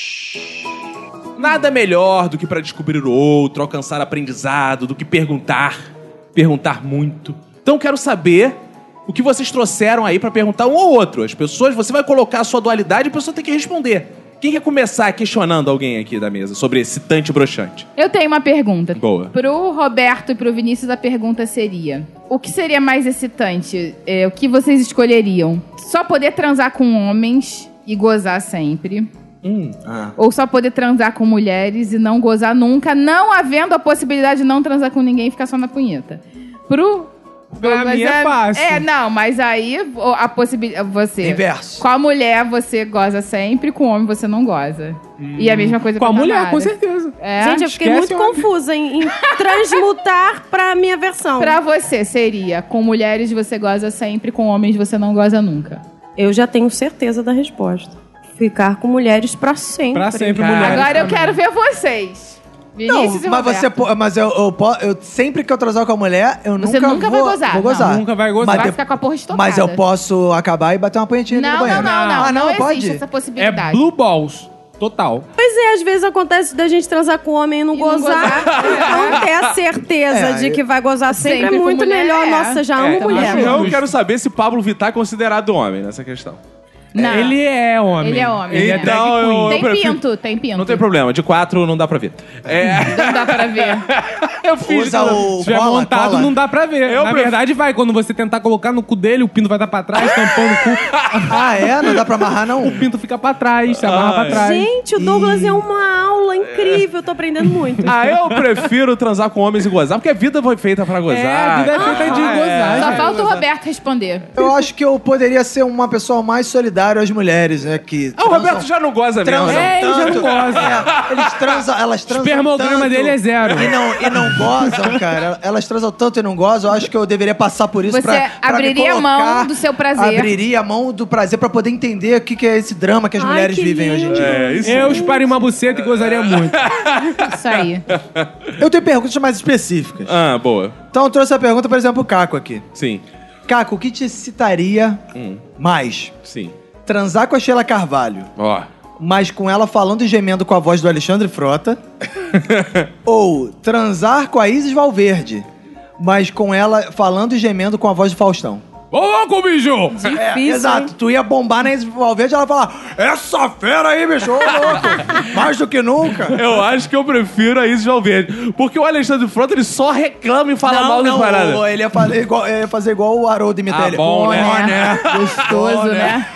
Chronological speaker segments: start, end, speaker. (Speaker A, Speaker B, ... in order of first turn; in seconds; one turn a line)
Speaker A: 1.4-17.9
Speaker B: 18.0-29.1
Speaker A: 19.0-19.3
Speaker A: 29.4-29.8
Speaker C: 29.8-30.1
Speaker B: 30.2-47.7
Speaker D: 37.5-38.9
Speaker C: 41.2-41.8
Speaker D: 45.2-48.5
Speaker E: 47.4-51.6
Speaker B: 49.2-49.8
Speaker B: 51.4-55.8
Speaker E: 56.2-60.6
Speaker D: 59.9-61.4
Speaker A: 60.4-61.1
Speaker B: 60.6-63.7
Speaker C: 62.9-73.0
Speaker B: 66.6-67.9
Speaker D: 67.8-68.8
Speaker B: 68.4-69.8
Speaker B: 71.3-73.8
Speaker D: 71.6-72.3
Speaker D: 73.4-75.2
Speaker E: 75.4-83.7
Speaker B: 77.7-79.2
Speaker A: 78.4-79.4
Speaker C: 80.1-80.6
Speaker B: 81.1-83.6
Speaker A: 82.8-86.4
Speaker D: 83.0-83.9
Speaker B: 86.9-87.4
Speaker C: 87.0-87.2
Speaker D: 87.0-89.6
Speaker B: 88.0-90.8
Speaker A: 88.5-90.0
Speaker A: 90.5-95.2
Speaker B: 92.8-93.9
Speaker C: 94.6-96.3
Speaker D: 94.6-101.4
Speaker A: 96.8-97.4
Speaker C: 101.2-102.8
Speaker D: 102.6-104.7
Speaker A: 103.7-104.4
Speaker E: 104.3-107.9
Speaker C: 105.0-105.6
Speaker A: 106.5-106.8
Speaker D: 107.8-108.3
Speaker A: 107.8-113.4
Speaker D: 111.1-113.2
Speaker B: 111.9-114.3
Speaker C: 114.3-118.7
Speaker A: 118.2-121.3
Speaker C: 119.2-134.5
Speaker D: 119.5-120.8
Speaker D: 122.1-124.9
Speaker B: 127.9-130.3
Speaker E: 133.2-135.2
Speaker A: 134.1-138.5
Speaker D: 134.6-136.7
Speaker B: 137.2-137.8
Speaker C: 138.6-140.2
Speaker A: 140.1-140.8
Speaker C: 140.9-142.6
Speaker A: 142.7-143.0
Speaker C: 143.5-145.0
Speaker A: 145.1-145.4
Speaker C: 145.6-146.1
Speaker A: 146.2-146.5
Speaker C: 146.8-148.3
Speaker A: 148.4-148.7
Speaker C: 149.0-151.8
Speaker A: 152.3-152.9
Speaker C: 153.0-155.4
Speaker C: 156.0-158.6
Speaker D: 158.9-160.1
Speaker E: 159.9-160.9
Speaker C: 160.2-166.4
Speaker A: 164.7-165.2
Speaker A: 166.3-171.6
Speaker C: 170.6-176.0
Speaker A: 173.7-176.2
Speaker B: 174.0-176.3